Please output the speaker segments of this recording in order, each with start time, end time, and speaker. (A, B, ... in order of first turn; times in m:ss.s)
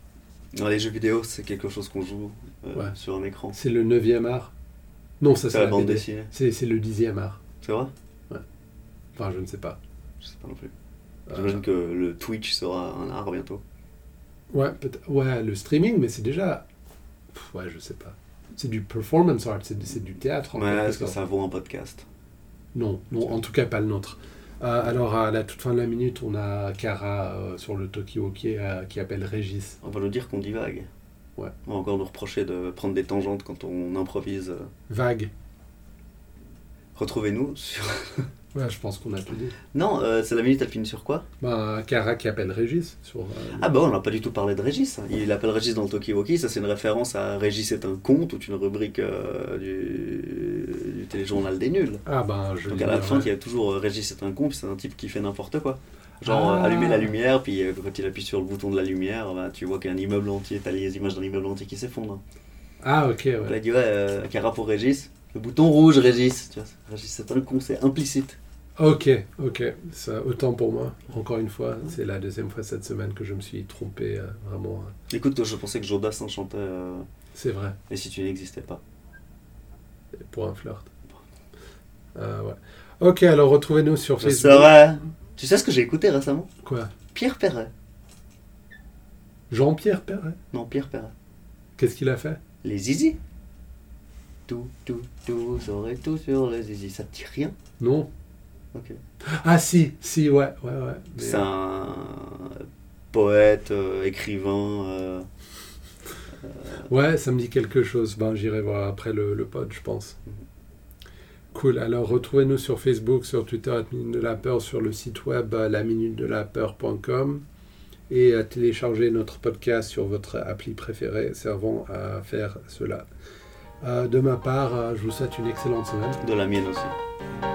0:00.6-0:03.6 A
0:03.5-0:04.5 B
0:05.2-0:07.4 B
0:05.5-0:06.3 A
0:07.6-0:07.9 A
0:09.2-0:09.8 B
0:10.2-0:10.7 A
0:11.3-0:13.6 A
0:14.5-0:16.6 B
0:17.3-0:21.2 B
0:20.6-0:22.1 A
0:22.7-0:29.8 B
0:29.8-0:30.9 A
0:31.7-0:34.7 A
0:34.9-0:35.3 B
0:37.0-0:38.3 A
0:38.6-0:39.5 B
0:39.7-0:41.3 A
0:41.4-0:43.7 B
0:43.6-0:52.0 A
0:52.1-0:53.3 B
0:52.7-1:02.2 A
0:56.2-0:57.1 B
1:02.8-1:03.6 B
1:03.4-1:08.4 A
1:08.8-1:14.9 B
1:15.1-1:17.0 A
1:17.4-1:17.8 B
1:17.9-1:18.8 A
1:20.2-1:20.9 B
1:22.2-1:24.8 B
1:24.2-1:26.5 A
1:26.6-1:26.9 B
1:27.1-1:27.7 A
1:29.5-1:30.4 B
1:30.5-1:31.1 A
1:31.8-1:32.4 B
1:32.6-1:33.2 A
1:34.5-1:37.6 A
1:37.8-1:38.1 B
1:39.3-1:41.5 B
1:41.2-1:45.3 A
1:46.4-1:46.9 A
1:46.9-1:50.2 B
1:51.5-1:57.4 B
1:58.1-2:03.0 B
2:03.8-2:06.2 B
2:06.2-2:07.0 A